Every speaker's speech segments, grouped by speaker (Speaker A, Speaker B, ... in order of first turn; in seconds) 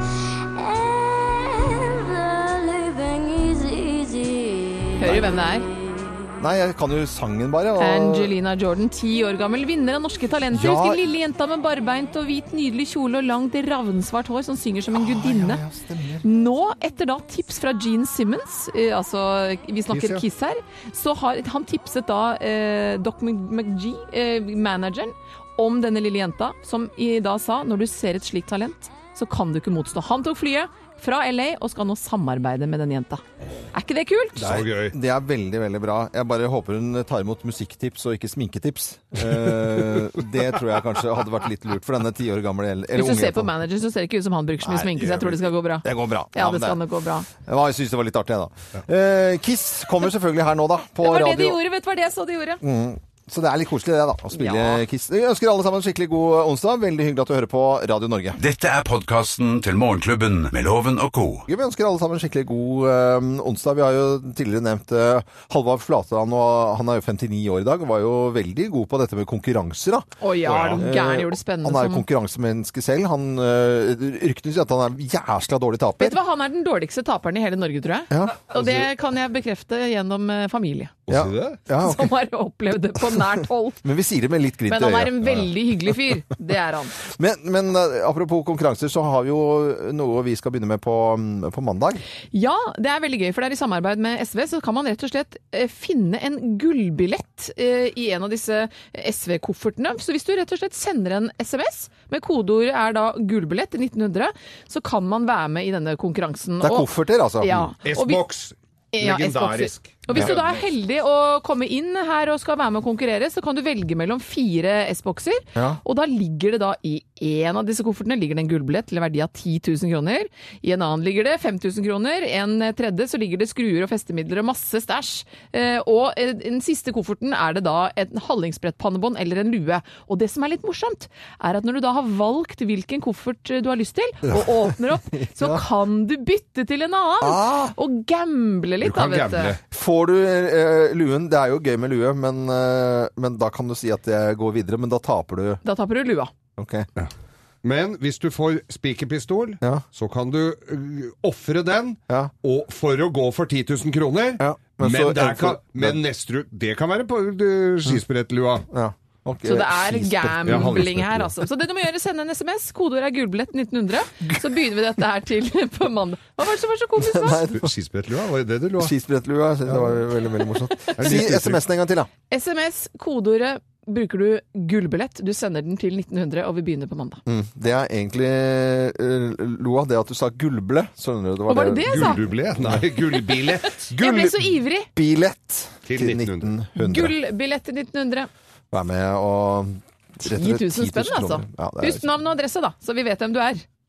Speaker A: 0.5-6.3
Speaker B: 5.0-5.7, 7.8-15.6, 16.2-34.6, 42.9-47.3, 51.0-52.6, 54.3-54.8, 70.2-72.0, 76.0-80.9, 81.8-83.8, 84.7-86.9, 92.3-106.9, 107.4-108.2, 108.9-139.6, 145.6-146.3, 159.4-167.4, 172.3-177.2, 181.5-182.2, 183.8-184.9, 186.8-188.3, 190.2-193.6
Speaker C: 6.4-8.3, 10.5-11.0, 14.9-16.2, 34.4-43.5, 44.6-51.6, 52.6-58.4, 61.5-70.1, 70.7-76.2, 78.1-78.7, 81.1-82.1, 83.0-86.2, 87.0-92.0, 106.6-107.7, 115.5-115.8, 134.3-135.6, 137.2-137.7, 139.7-145.6, 146.6-146.9, 154.4-156.0, 158.7-160.9, 167.0-167.7, 168.8-172.1, 177.2-183.1, 183.9-187.2, 188.7-192.1
Speaker D: 19.9-20.2, 34.4-35.0, 39.3-40.3, 70.4-70.9, 81.1-81.6, 107.8-110.7, 138.8-139.6, 147.6-158.7, 160.4-161.3, 167.5-168.9, 170.9-171.6, 181.9-183.8, 185.8-186.5
Speaker E: 58.4-61.5